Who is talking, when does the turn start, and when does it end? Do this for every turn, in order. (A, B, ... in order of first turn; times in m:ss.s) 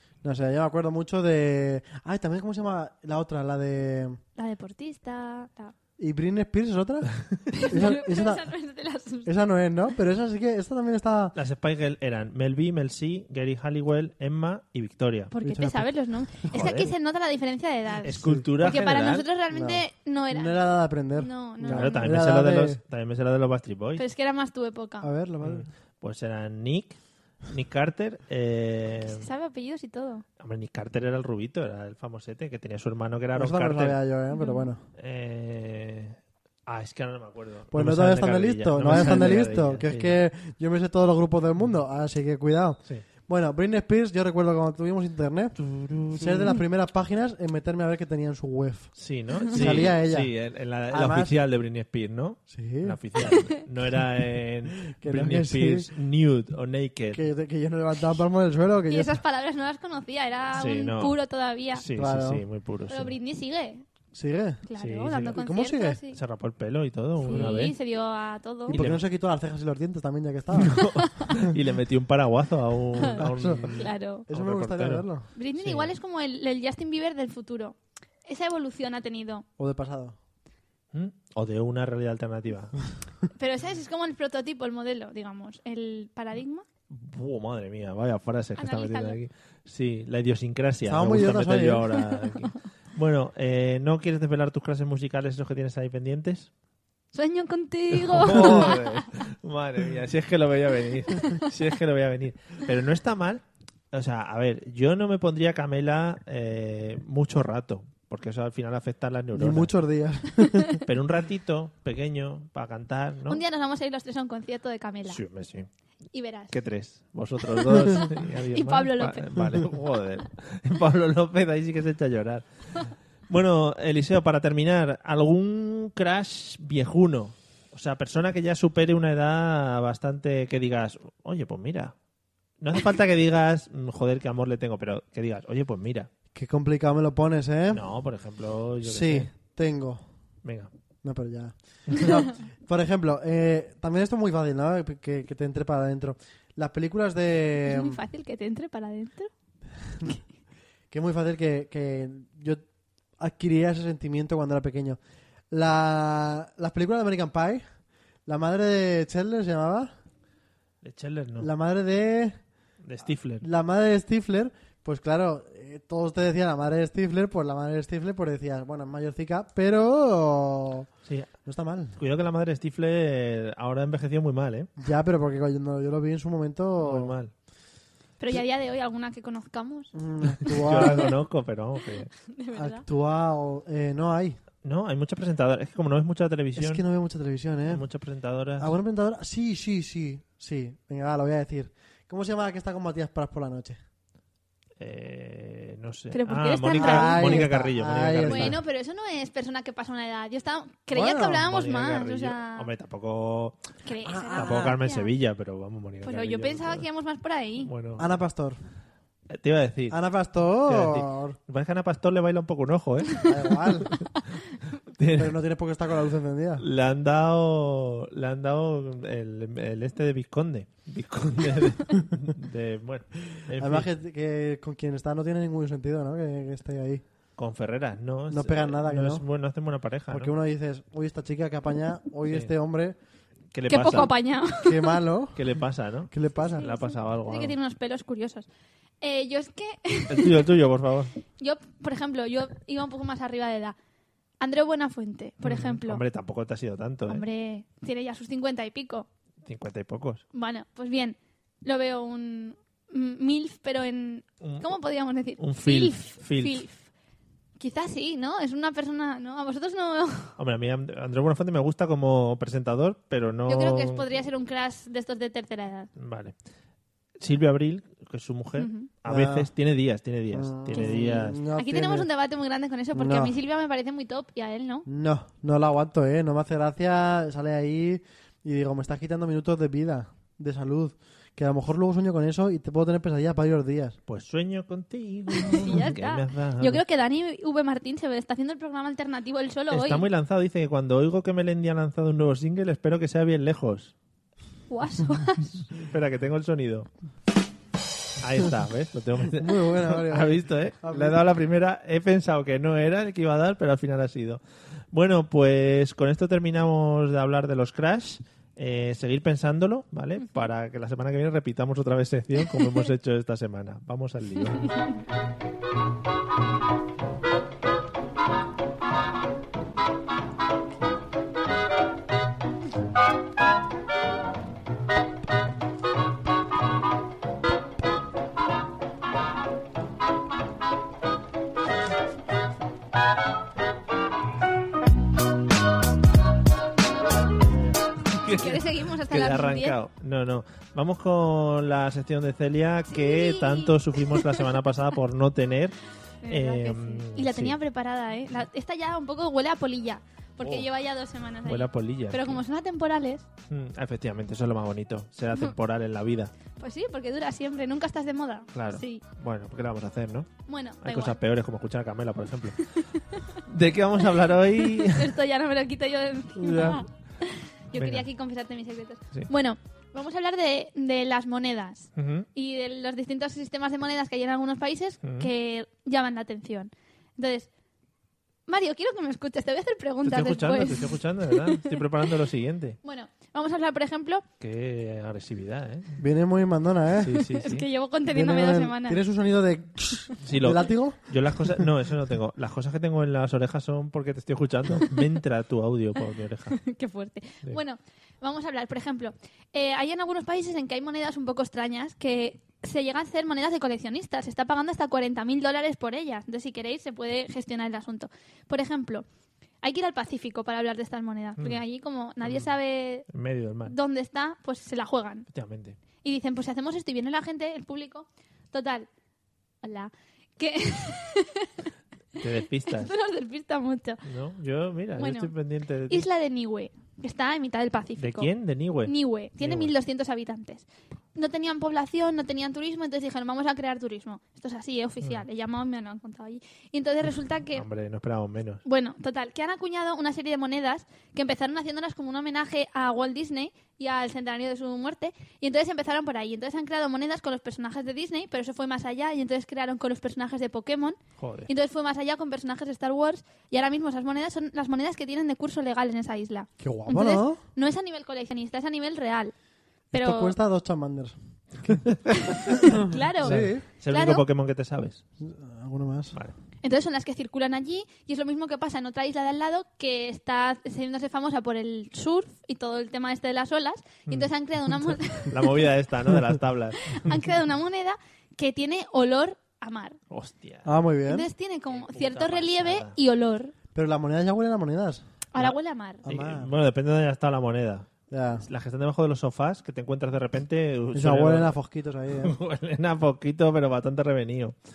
0:00.2-0:04.2 A
0:04.4-0:05.7 B
0:06.0-0:08.5 A
0:07.5-0:09.3 B
0:09.2-0:11.4 A
0:11.3-0:15.3 C
0:15.3-0:20.6 B
0:15.4-0:15.9 A
0:16.5-0:16.9 C
0:18.0-0:19.3 C
0:19.5-0:22.8 A
0:21.1-0:22.1 B
0:21.6-0:24.0 C
0:24.0-0:25.1 B
0:25.0-0:25.7 A
0:25.4-0:29.3 C
0:29.1-0:30.2 B
0:30.4-0:34.0 C
0:33.3-0:34.8 A
0:34.3-0:34.7 B
0:35.0-0:40.2 C
0:37.7-0:45.6 A
0:45.6-0:46.6 C
0:46.1-0:48.9 A
0:49.0-0:57.2 C
0:49.5-0:50.3 A
0:50.9-0:51.4 A
0:52.5-0:53.0 A
0:54.8-0:55.9 A
0:57.1-0:59.2 A
0:58.9-1:01.8 B
1:00.5-1:01.1 C
1:01.7-1:03.1 C
1:01.9-1:02.4 A
1:02.9-1:03.8 B
1:04.1-1:04.6 A
1:04.7-1:06.2 B
1:04.8-1:05.4 C
1:05.3-1:06.0 A
1:06.1-1:07.7 C
1:07.2-1:08.8 B
1:07.3-1:07.6 A
1:08.7-1:10.8 A
1:08.7-1:09.0 C
1:10.5-1:15.9 C
1:11.0-1:11.3 B
1:13.1-1:13.7 A
1:13.7-1:14.3 B
1:14.3-1:15.3 A
1:15.4-1:19.4 B
1:19.6-1:20.2 A
1:20.9-1:22.8 C
1:23.4-1:26.6 B
1:26.9-1:36.5 C
1:28.6-1:29.2 B
1:30.8-1:31.9 A
1:37.1-1:39.0 B
1:37.9-1:49.7 C
1:49.3-1:50.8 A
1:50.8-1:53.4 C
1:53.3-1:55.2 B
1:55.1-1:55.7 C
1:56.1-1:56.5 B
1:56.5-2:02.4 C
1:57.6-1:59.6 B
2:03.3-2:11.9 C
2:12.6-2:16.1 C
2:16.3-2:17.8 A
2:17.7-2:19.3 C
2:18.8-2:20.0 A
2:20.4-2:20.7 C
2:21.0-2:28.0 A
2:27.6-2:29.3 B
2:30.9-2:32.6 A
2:33.2-2:35.0 A
2:35.5-2:37.6 A
2:38.2-2:39.9 A
2:40.8-2:41.5 C
2:41.4-2:42.4 A
2:42.8-2:43.5 C
2:43.4-2:50.9 A
2:51.4-2:52.0 A
2:52.0-2:54.7 C
2:54.8-2:57.2 A
2:56.8-2:57.3 C
2:58.2-2:59.9 B
2:59.9-3:01.1 A
3:00.5-3:02.1 C
3:00.5-3:01.1 B
3:02.2-3:02.8 B
3:02.5-3:04.4 A
3:04.6-3:06.8 C
3:06.6-3:07.8 A
3:07.7-3:08.7 C
3:08.6-3:13.8 A
3:14.8-3:18.6 C
3:16.1-3:17.5 B
3:16.7-3:18.6 A
3:18.3-3:22.7 B
3:20.9-3:21.4 A
3:21.4-3:23.6 C
3:23.8-3:25.1 B
3:24.0-3:24.8 A
3:24.3-3:26.8 C
3:26.0-3:27.7 B
3:27.6-3:28.1 C
3:28.0-3:28.6 A
3:29.3-3:30.0 C
3:29.9-3:31.4 A
3:30.6-3:33.2 C
3:33.2-3:33.9 A
3:34.9-3:35.3 C
3:35.1-3:36.6 A
3:36.6-3:43.9 C
3:43.6-3:47.0 A
3:47.4-3:50.3 C
3:48.3-3:49.2 A
3:50.1-3:53.0 A
3:53.5-3:54.1 C
3:53.7-3:55.0 B
3:54.6-3:55.4 A
3:55.3-3:57.5 C
3:56.1-3:56.7 A
3:56.6-3:58.5 B
3:59.0-4:00.5 B
4:00.1-4:01.1 C
4:01.4-4:03.7 B
4:04.4-4:06.0 B
4:05.4-4:07.2 C
4:07.1-4:09.1 B
4:09.4-4:10.2 C
4:10.3-4:16.9 B
4:14.4-4:14.7 C
4:15.4-4:16.6 C
4:17.6-4:20.3 B
4:20.4-4:24.1 C
4:23.5-4:25.9 B
4:26.0-4:26.3 C
4:27.2-4:31.4 C
4:28.6-4:28.9 B
4:29.0-4:29.5 A
4:30.3-4:32.1 A
4:30.7-4:34.8 B
4:32.9-4:33.4 A
4:34.9-4:44.0 A
4:44.1-4:46.8 C
4:45.4-4:50.0 B
4:49.7-4:53.9 C
4:54.7-4:55.7 B
4:55.8-4:56.9 C
4:58.2-5:04.4 C
4:59.3-5:01.2 A
5:04.9-5:14.7 C
5:38.1-5:45.8 C
5:38.3-5:39.8 B
5:42.9-5:44.4 B
5:46.2-5:53.2 B
5:46.3-5:47.6 C
5:50.4-5:50.7 C
5:51.4-5:52.4 C
5:53.5-5:56.3 C
5:56.6-5:59.0 B
5:58.5-6:00.3 C
6:00.5-6:01.2 B
6:00.8-6:02.6 C
6:03.4-6:05.1 C
6:04.6-6:17.5 B
6:06.4-6:06.8 A
6:07.7-6:08.0 C
6:12.0-6:12.2 C
6:15.0-6:15.3 C
6:18.5-6:21.8 B
6:20.0-6:22.8 C
6:22.8-6:24.2 B
6:24.4-6:26.0 C
6:26.0-6:27.2 A
6:27.0-6:27.7 C
6:27.2-6:29.0 B
6:28.1-6:31.6 A
6:30.2-6:36.6 C
6:36.5-6:49.0 B
6:49.6-6:53.1 B
6:53.1-6:53.7 C
6:53.7-6:55.3 B
6:55.3-6:55.8 C
6:56.0-6:58.9 B
6:59.6-7:01.7 B
7:02.2-7:02.9 C
7:02.7-7:04.0 B
7:04.0-7:06.0 C
7:05.0-7:05.3 B
7:05.9-7:08.3 B
7:08.0-7:09.7 C
7:08.8-7:17.6 B
7:17.5-7:18.6 C
7:18.6-7:39.3 B
7:31.2-7:31.5 C
7:36.6-7:37.4 A
7:39.9-7:40.3 B
7:39.9-7:41.8 A
7:41.7-7:45.0 C
7:42.2-7:44.2 B
7:42.6-7:43.6 A
7:45.2-7:46.2 A
7:46.6-7:55.7 B
7:54.8-7:57.1 C
7:56.8-8:00.0 B
8:00.1-8:00.7 C
8:00.6-8:01.3 A
8:01.0-8:03.5 B
8:01.7-8:03.0 C
8:03.7-8:05.0 A
8:05.3-8:06.0 B
8:06.0-8:06.5 A
8:06.0-8:11.5 C
8:08.1-8:08.4 A
8:10.9-8:12.4 A
8:12.2-8:14.6 C